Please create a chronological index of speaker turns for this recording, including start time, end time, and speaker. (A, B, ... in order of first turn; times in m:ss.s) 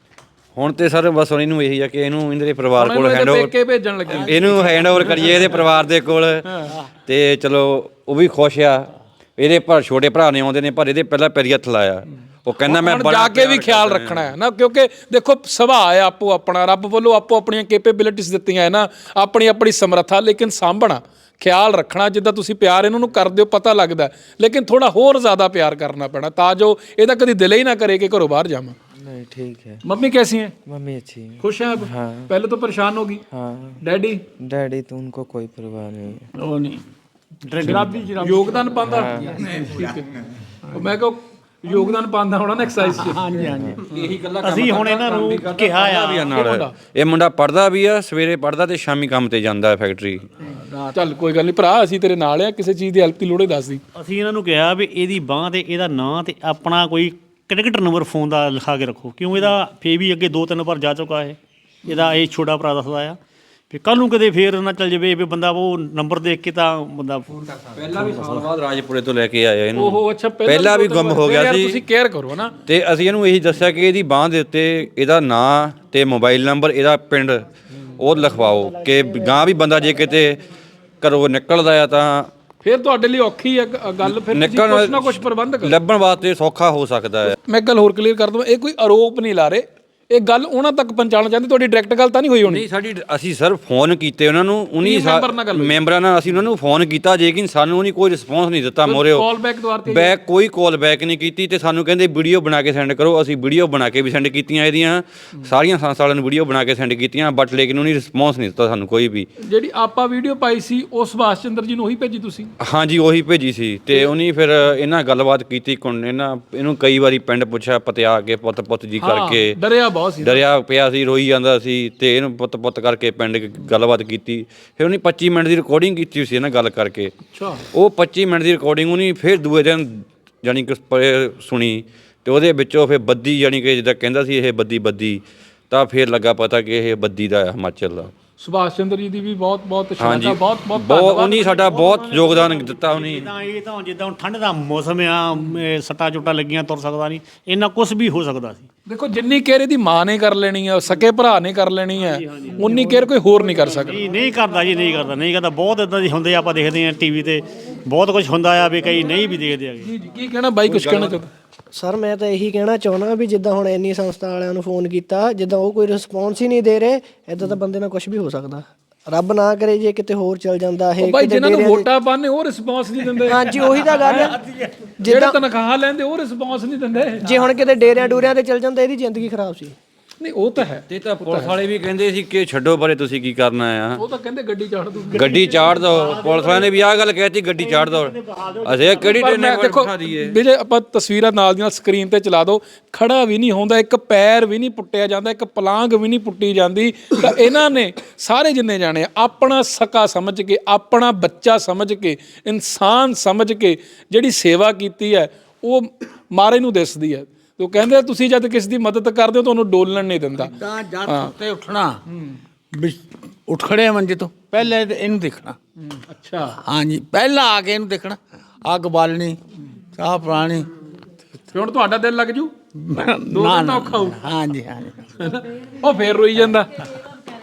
0:00.6-0:03.5 A
0:02.8-0:04.4 B
0:04.1-0:14.3 A
0:04.3-0:05.5 C
0:12.6-0:28.8 B
0:29.0-0:29.8 D
0:29.8-0:30.6 B
0:30.7-0:32.3 D
0:31.4-0:33.2 B
0:33.3-0:33.8 D
0:33.8-0:34.2 B
0:34.4-0:36.3 D
0:36.4-0:36.8 C
0:37.5-0:38.0 E
0:37.6-0:38.8 C
0:38.2-0:40.1 B
0:38.8-0:39.4 D
0:40.7-0:43.3 B
0:43.0-0:43.8 C
0:43.5-0:43.8 D
0:43.9-0:50.3 A
0:44.4-0:46.3 E
0:46.3-0:46.7 B
0:50.5-0:51.0 C
0:51.0-0:53.8 B
0:54.0-1:03.2 E
1:03.7-1:08.5 E
1:07.7-1:11.8 A
1:09.8-1:12.6 B
1:12.7-1:20.4 A
1:18.6-1:19.0 F
1:21.0-1:22.3 A
1:22.6-1:25.8 B
1:24.0-1:27.4 A
1:27.4-1:32.6 B
1:32.5-1:39.3 A
1:34.8-1:35.8 B
1:38.8-1:40.1 B
1:39.8-1:49.3 A
1:49.5-1:52.5 B
1:52.6-1:59.6 A
1:59.0-2:00.4 B
2:00.2-2:07.1 A
2:07.3-2:07.6 B
2:07.7-2:18.1 A
2:18.4-2:21.4 B
2:20.0-2:23.3 A
2:21.3-2:28.7 E
2:28.9-2:34.0 B
2:32.0-2:39.9 E
2:39.8-2:41.3 B
2:40.7-2:41.2 A
2:41.7-2:51.9 F
2:51.0-2:54.4 B
2:53.3-2:54.4 F
2:54.6-2:54.8 C
2:55.0-2:55.4 F
2:55.0-2:57.3 B
2:57.2-2:59.8 F
3:00.2-3:01.5 B
3:00.9-3:04.0 A
3:04.0-3:05.6 B
3:05.1-3:06.8 E
3:05.2-3:08.1 A
3:07.6-3:09.2 E
3:08.6-3:10.4 A
3:09.0-3:31.3 B
3:30.4-3:32.0 C
3:32.7-3:35.6 C
3:35.9-3:36.6 B
3:36.6-3:39.4 C
3:40.0-3:40.7 C
3:41.5-3:42.5 B
3:42.8-3:45.1 C
3:43.3-3:44.2 B
3:45.2-3:46.9 B